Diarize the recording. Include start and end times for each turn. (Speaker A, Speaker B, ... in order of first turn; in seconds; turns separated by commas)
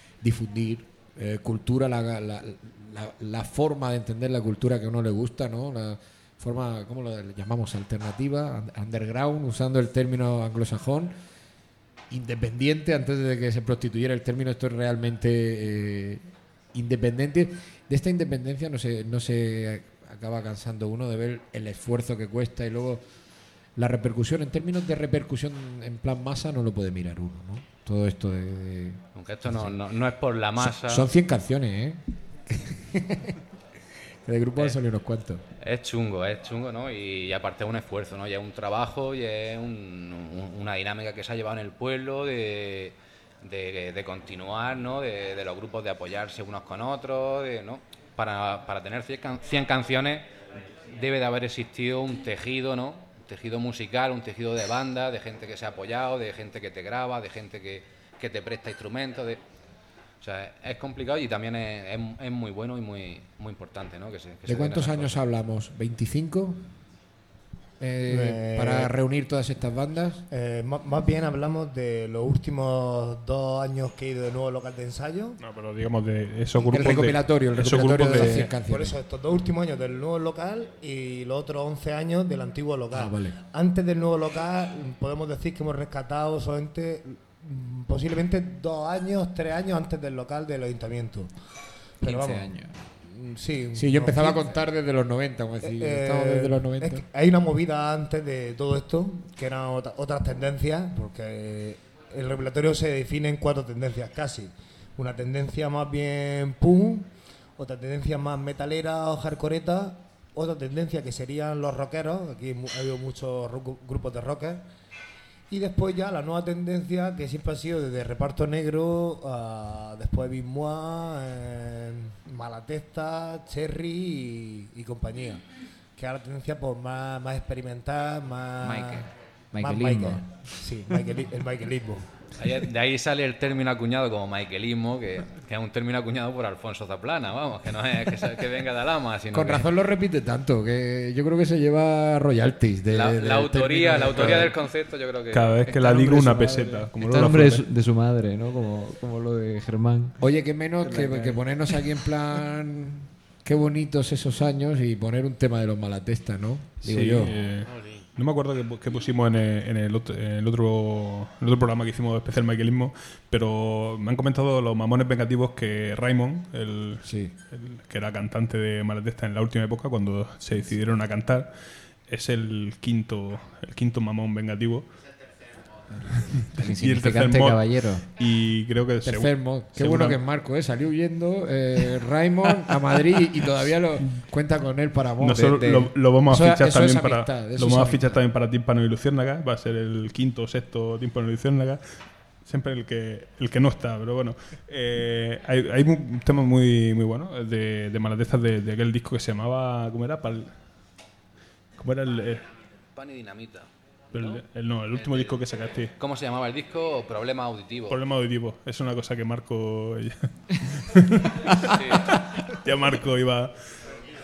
Speaker A: 0.2-11.1, Speaker A: 12.1-23.0, Speaker A: 23.8-29.7, Speaker B: 29.1-31.1, Speaker A: 30.6-33.4, Speaker A: 34.2-35.4, Speaker B: 35.6-50.3, Speaker B: 50.9-59.4, Speaker B: 60.2-65.2, Speaker A: 64.5-66.7, Speaker A: 67.8-70.2, Speaker C: 68.1-68.9, Speaker C: 70.3-75.4, Speaker D: 75.4-78.5, Speaker A: 76.6-79.0, Speaker C: 78.0-91.3, Speaker A: 82.9-83.4, Speaker C: 92.0-94.7, Speaker E: 92.0-92.7, Speaker A: 93.8-97.0, Speaker C: 95.6-114.6, Speaker C: 115.5-125.4, Speaker C: 126.0-132.1, Speaker E: 128.6-130.3, Speaker B: 132.4-139.6, Speaker A: 139.3-144.6, Speaker B: 142.9-145.6, Speaker D: 145.3-147.6, Speaker E: 145.7-150.2, Speaker A: 150.2-157.3, Speaker E: 150.8-151.4, Speaker D: 156.8-171.5, Speaker A: 167.0-167.3, Speaker D: 172.1-174.8, Speaker E: 176.1-178.1, Speaker D: 176.2-180.2, Speaker A: 179.1-185.5, Speaker D: 185.2-191.8, Speaker E: 185.3-185.9, Speaker A: 186.3-188.2, Speaker D: 192.4-200.5, Speaker D: 201.8-202.4, Speaker B: 202.9-204.4, Speaker D: 204.1-205.9, Speaker B: 204.9-205.4, Speaker B: 206.0-208.0, Speaker D: 207.9-213.8, Speaker B: 211.7-212.1